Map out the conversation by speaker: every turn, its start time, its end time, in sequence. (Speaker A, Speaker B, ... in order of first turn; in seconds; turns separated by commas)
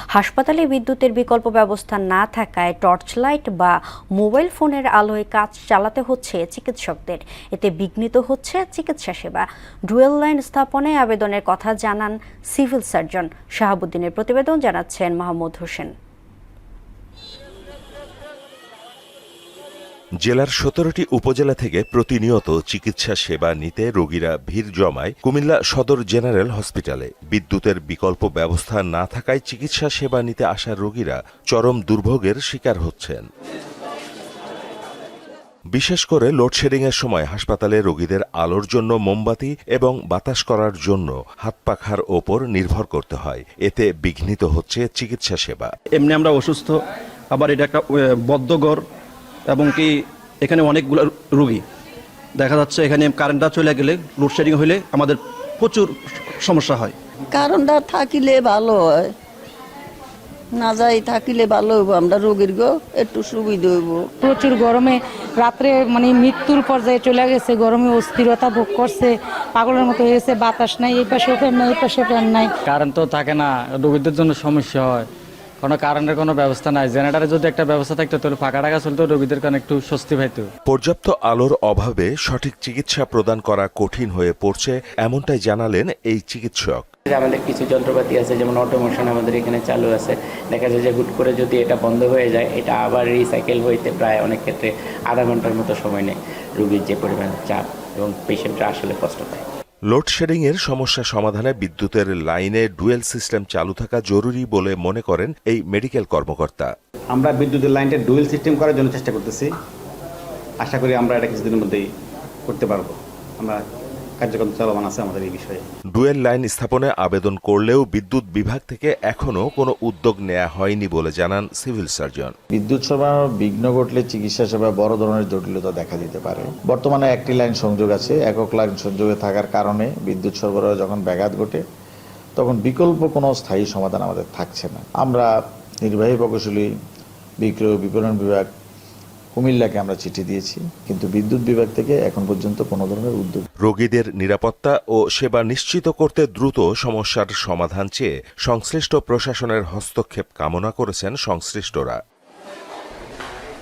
Speaker A: 0.1-15.9, Speaker B: 20.2-33.2, Speaker B: 35.7-45.7, Speaker C: 45.9-46.8, Speaker C: 47.3-48.8, Speaker C: 49.5-51.6, Speaker C: 52.4-57.0, Speaker D: 57.3-59.1, Speaker D: 60.5-64.1, Speaker E: 64.2-72.5, Speaker F: 72.7-75.1, Speaker F: 75.6-80.5, Speaker B: 80.7-86.9, Speaker G: 87.1-99.4, Speaker B: 99.9-106.7, Speaker H: 107.1-109.6, Speaker H: 110.6-111.9, Speaker H: 112.5-113.6, Speaker H: 114.2-115.7, Speaker B: 115.9-122.3, Speaker I: 122.5-131.6, Speaker I: 132.4-135.3, Speaker I: 135.8-136.7, Speaker I: 137.4-138.5, Speaker I: 139.3-143.5, Speaker B: 143.6-152.0